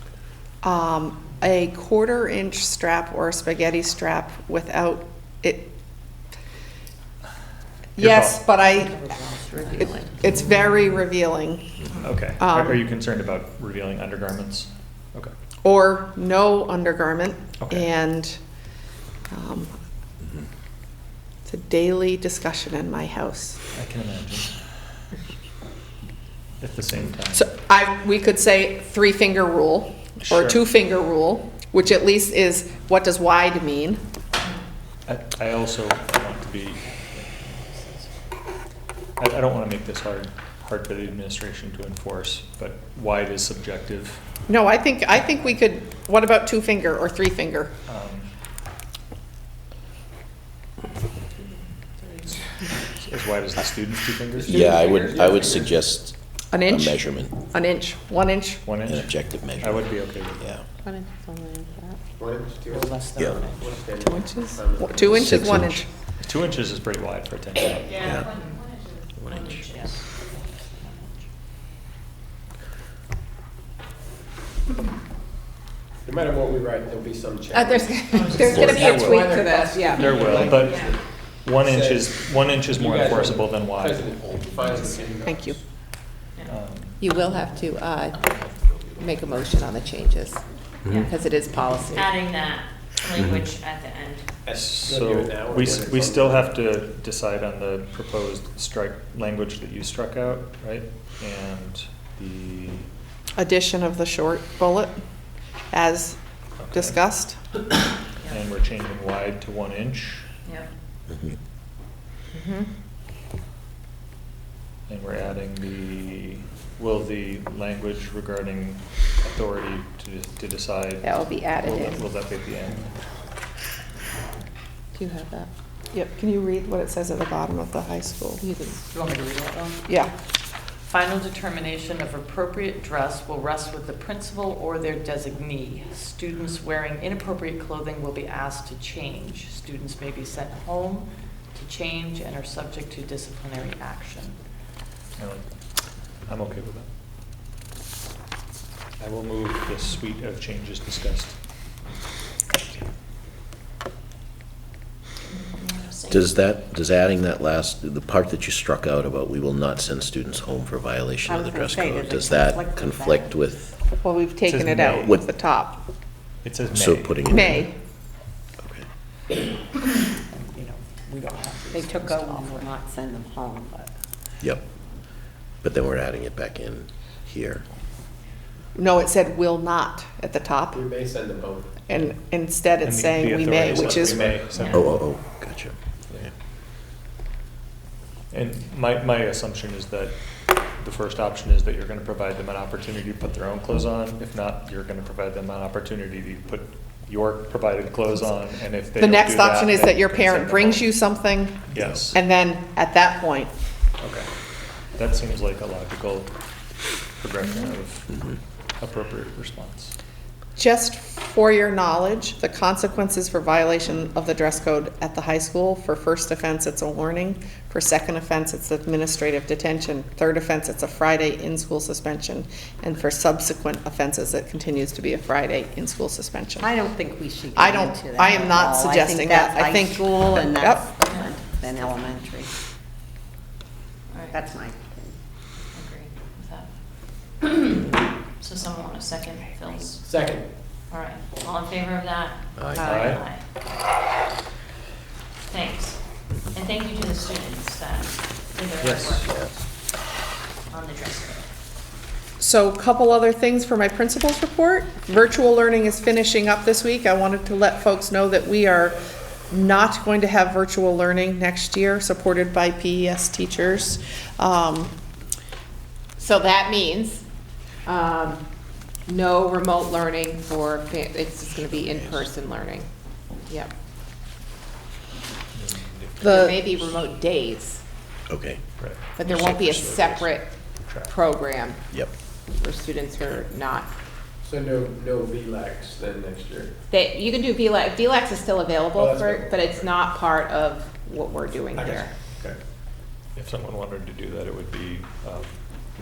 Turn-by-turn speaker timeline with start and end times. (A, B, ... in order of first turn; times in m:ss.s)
0:00.6-0:05.7 A
0:08.0-0:12.8 A
0:08.0-0:08.4 B
0:08.7-0:10.7 C
0:12.0-0:15.3 B
0:15.6-0:18.4 A
0:17.6-0:17.9 B
0:19.3-0:19.8 A
0:21.4-0:23.6 A
0:23.7-0:24.6 B
0:26.6-0:27.5 B
0:27.3-0:34.0 A
0:30.2-0:30.6 B
0:35.0-0:37.9 B
0:39.2-0:44.2 B
0:44.5-0:47.7 A
0:47.9-0:48.3 B
0:52.9-0:54.8 B
0:54.4-0:57.5 D
0:54.7-0:55.2 A
0:54.9-0:55.7 E
0:56.5-0:58.6 A
0:58.6-1:00.6 B
0:58.9-1:00.6 D
1:00.8-1:02.0 F
1:02.2-1:05.4 E
1:02.7-1:03.8 C
1:04.0-1:05.9 A
1:05.2-1:05.8 D
1:06.2-1:08.1 B
1:07.9-1:10.1 G
1:08.0-1:08.3 D
1:09.2-1:09.6 D
1:16.0-1:21.0 E
1:17.5-1:20.5 F
1:18.2-1:18.6 G
1:18.5-1:24.1 B
1:20.6-1:20.9 G
1:21.5-1:25.6 E
1:25.2-1:25.6 A
1:26.4-1:27.0 B
1:27.0-1:28.4 F
1:29.0-1:30.4 F
1:30.9-1:31.1 G
1:31.0-1:32.2 F
1:31.9-1:34.3 G
1:34.4-1:36.5 E
1:34.5-1:42.9 B
1:43.4-1:45.0 A
1:45.7-1:47.4 A
1:46.6-1:47.0 B
1:48.2-1:50.3 B
1:50.4-1:50.7 G
1:51.1-1:51.3 D
1:52.4-1:52.6 F
1:54.9-2:03.0 B
2:01.0-2:02.0 F
2:04.9-2:05.5 F
2:05.9-2:08.4 A
2:08.4-2:08.8 F
2:08.9-2:09.8 C
2:09.9-2:10.1 A
2:10.8-2:24.4 C
2:25.2-2:25.5 B
2:26.2-2:26.9 B
2:29.0-2:31.4 B
2:35.3-2:36.4 G
2:36.1-2:43.8 D
2:41.3-2:41.9 H
2:41.6-2:42.7 F
2:44.0-2:45.8 A
2:44.4-2:45.1 B
2:45.0-2:45.2 D
2:46.4-2:47.5 B
2:46.7-2:47.6 D
2:47.3-2:47.7 A
2:48.6-2:48.8 D
2:50.3-2:52.7 C
2:51.7-2:53.9 F
2:51.8-2:53.2 H
2:55.6-2:57.6 D
2:58.7-3:00.8 A
3:00.7-3:01.8 E
3:01.8-3:04.4 A
3:02.8-3:05.0 B
3:03.8-3:06.3 D
3:04.6-3:04.8 G
3:08.3-3:10.2 B
3:10.8-3:21.0 B
3:19.0-3:23.5 A
3:21.7-3:22.2 B
3:24.0-3:24.3 B
3:24.9-3:26.3 B
3:27.1-3:29.9 B
3:30.6-3:46.7 A
3:46.7-3:51.2 H
3:47.5-3:51.0 A
3:51.0-3:52.1 G
3:54.1-3:54.4 G
3:55.7-4:00.1 G
4:00.0-4:00.5 E
4:00.9-4:03.4 G
4:02.6-4:02.8 D
4:02.8-4:03.2 B
4:05.4-4:09.4 G
4:08.8-4:09.2 B
4:10.7-4:11.5 G
4:12.4-4:24.9 A
4:26.2-4:27.2 F
4:27.8-4:28.4 F
4:29.1-4:32.9 F
4:31.7-4:32.1 D
4:35.5-4:36.5 B
4:36.2-4:37.8 F
4:36.3-4:36.6 A
4:38.3-4:38.6 D
4:38.8-4:40.3 B
4:39.2-4:40.5 F
4:40.9-4:41.1 B
4:41.0-4:41.8 F
4:42.6-4:43.9 F
4:44.4-4:46.7 E
4:46.9-4:52.1 F
4:49.0-4:49.8 E
4:51.8-4:52.6 E
4:53.3-4:55.6 B